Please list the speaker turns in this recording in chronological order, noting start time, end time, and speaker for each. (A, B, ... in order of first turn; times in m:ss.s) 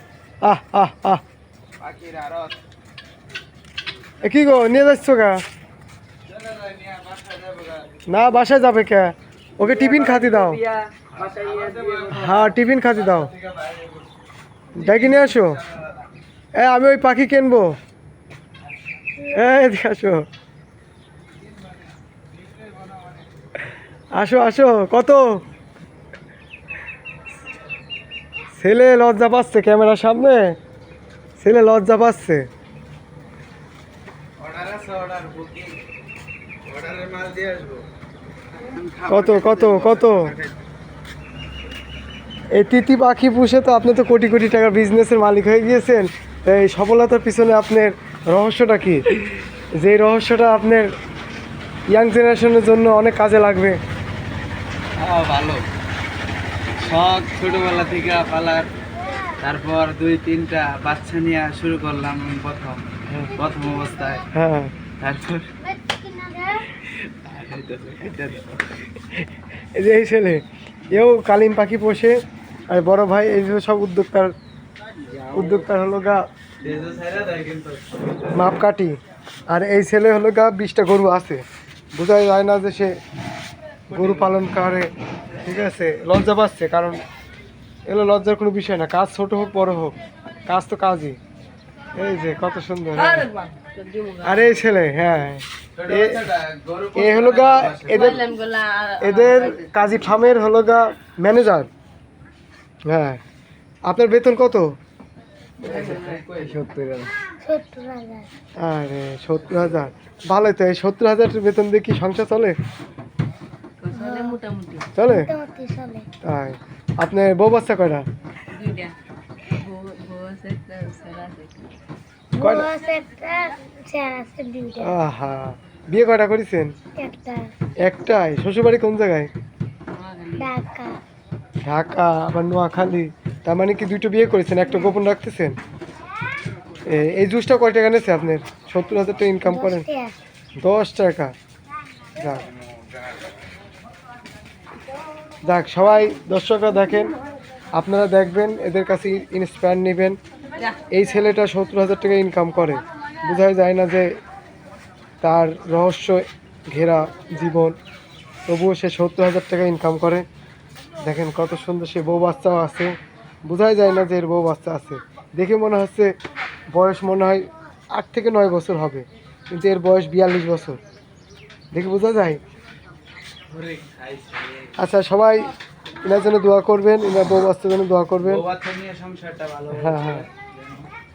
0:00.4-0:01.2 A
0:01.8-0:02.5 B
0:04.2-0:05.4 A
0:06.3-0:08.0 B
0:08.1-0:10.6 A
0:09.6-0:14.1 B
0:10.2-0:12.1 C
0:12.1-0:13.3 A
0:14.7-0:15.6 A
0:14.8-0:16.0 B
0:16.6-0:17.8 A
0:19.2-0:20.2 A
0:22.4-0:23.2 B
0:24.2-0:25.2 A
0:28.6-0:30.6 A
0:31.4-0:32.4 A
0:34.4-0:35.8 B
0:36.6-0:37.8 B
0:38.6-0:40.5 B
0:39.1-0:40.3 A
0:42.5-0:49.0 A
0:49.8-0:50.9 A
0:51.9-0:53.8 A
0:55.0-0:55.6 B
0:56.8-0:58.7 B
0:59.4-1:04.2 B
1:03.1-1:03.3 A
1:04.3-1:04.7 A
1:05.0-1:05.5 B
1:06.0-1:06.6 D
1:06.8-1:08.9 B
1:09.1-1:14.3 A
1:15.3-1:16.2 A
1:16.6-1:18.4 B
1:18.3-1:19.0 A
1:19.5-1:23.0 A
1:23.9-1:24.9 A
1:23.9-1:24.4 B
1:25.4-1:27.0 A
1:27.9-1:29.9 A
1:30.5-1:31.2 A
1:32.0-1:33.3 A
1:33.0-1:34.7 C
1:34.2-1:36.3 A
1:35.8-1:38.3 B
1:36.9-1:38.2 A
1:37.6-1:40.2 C
1:39.0-1:41.7 A
1:42.9-1:43.2 A
1:43.8-1:44.7 A
1:45.6-1:46.7 C
1:45.6-1:46.6 B
1:47.4-1:48.3 D
1:48.6-1:52.6 A
1:53.8-1:54.9 C
1:54.9-1:55.3 A
1:55.2-1:56.1 D
1:56.2-1:58.0 A
1:58.5-1:58.9 C
1:59.5-2:01.6 C
2:02.4-2:02.8 A
2:02.4-2:04.9 D
2:04.8-2:06.7 A
2:07.0-2:07.5 D
2:07.8-2:09.3 A
2:09.9-2:10.5 C
2:10.4-2:11.0 D
2:11.6-2:15.6 A
2:16.8-2:19.9 A
2:19.5-2:20.1 D
2:20.6-2:21.3 A
2:22.2-2:22.5 A
2:25.4-2:27.1 A
2:27.7-2:30.2 A
2:30.9-2:34.1 A
2:35.2-2:37.8 A
2:38.4-2:40.2 A
2:41.0-2:42.9 A
2:43.4-2:46.1 A
2:46.7-2:50.8 A
2:51.7-2:52.4 A
2:53.5-2:54.7 B
2:54.8-2:55.5 A
2:56.0-2:58.4 A
2:58.2-3:00.9 B
2:59.7-3:00.2 A